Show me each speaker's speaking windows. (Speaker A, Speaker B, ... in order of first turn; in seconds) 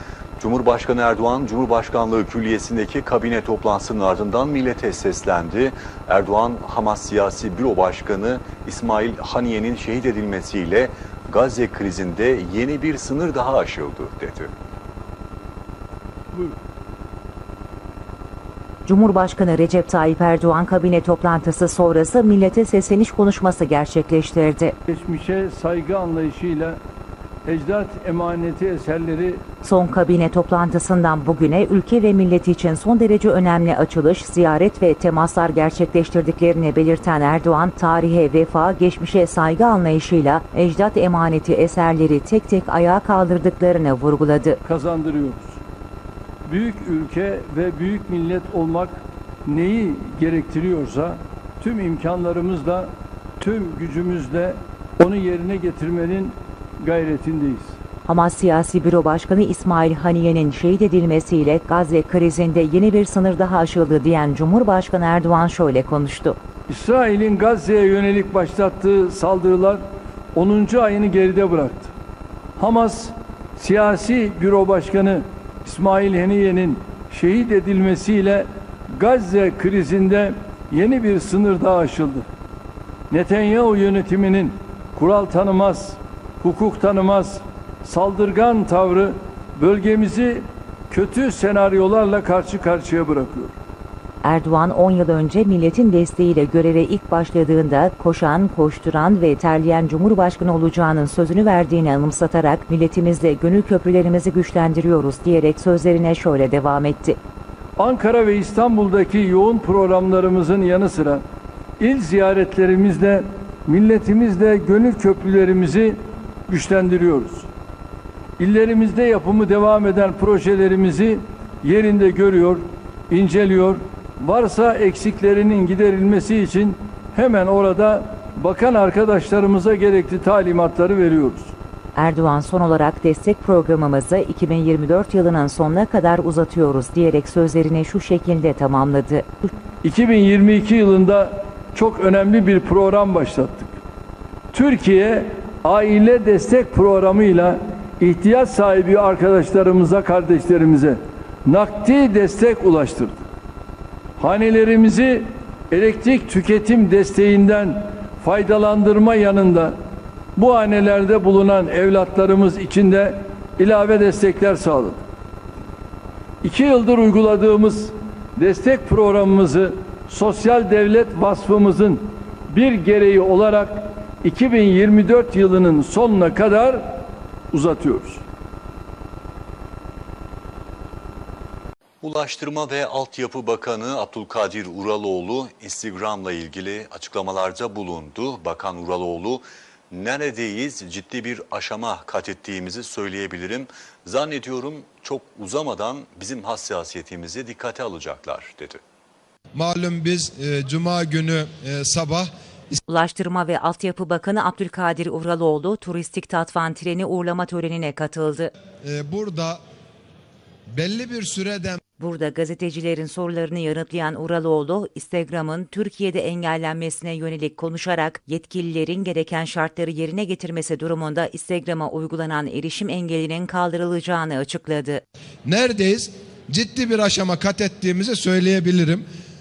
Speaker A: 0.4-14.5, 182.0-198.8
Speaker B: 18.9-24.8, 29.6-44.6, 58.0-66.4, 94.2-107.2, 131.9-139.3, 202.9-208.5, 212.0-225.0
Speaker C: 24.9-26.8, 27.4-29.4, 44.6-45.6, 46.5-57.8, 66.7-71.9, 72.6-82.3, 83.1-93.5, 107.8-111.2, 111.8-117.5, 118.4-131.5, 139.8-143.7, 144.5-153.2, 154.2-159.8, 160.3-165.0, 166.4-178.2
Speaker D: 199.5-202.8, 208.8-209.6, 210.7-211.8, 225.4-229.0